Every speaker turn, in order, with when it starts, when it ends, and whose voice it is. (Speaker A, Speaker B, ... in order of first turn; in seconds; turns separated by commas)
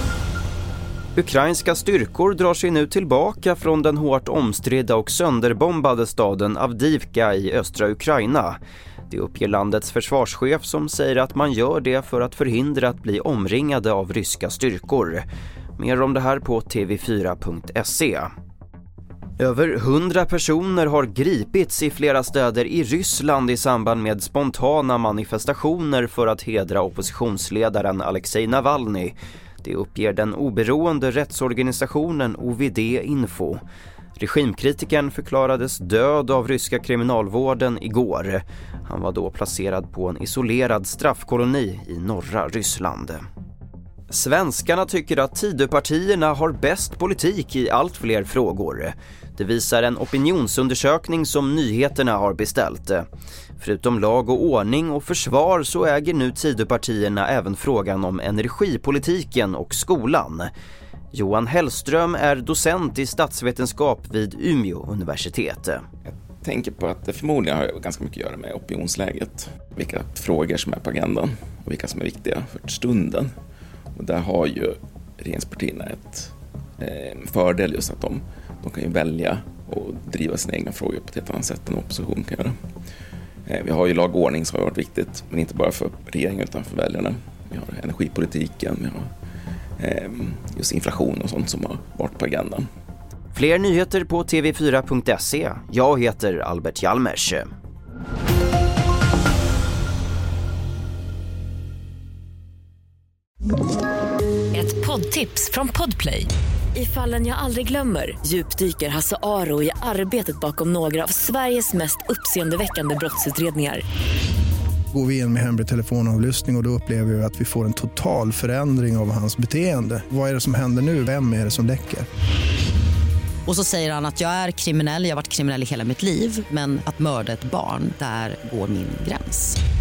Speaker A: 1.2-8.6, Speaker A: 9.1-15.2, Speaker A: 15.8-18.3, Speaker A: 19.4-33.6, Speaker A: 34.2-43.2, Speaker A: 44.1-53.1, Speaker A: 53.6-60.5, Speaker A: 61.1-65.8, Speaker B: 66.4-73.3, Speaker B: 74.0-82.6, Speaker B: 83.5-89.1, Speaker B: 89.8-92.7, Speaker A: 93.3-97.5, Speaker C: 104.5-113.8, Speaker D: 114.9-122.1, Speaker E: 123.5-129.6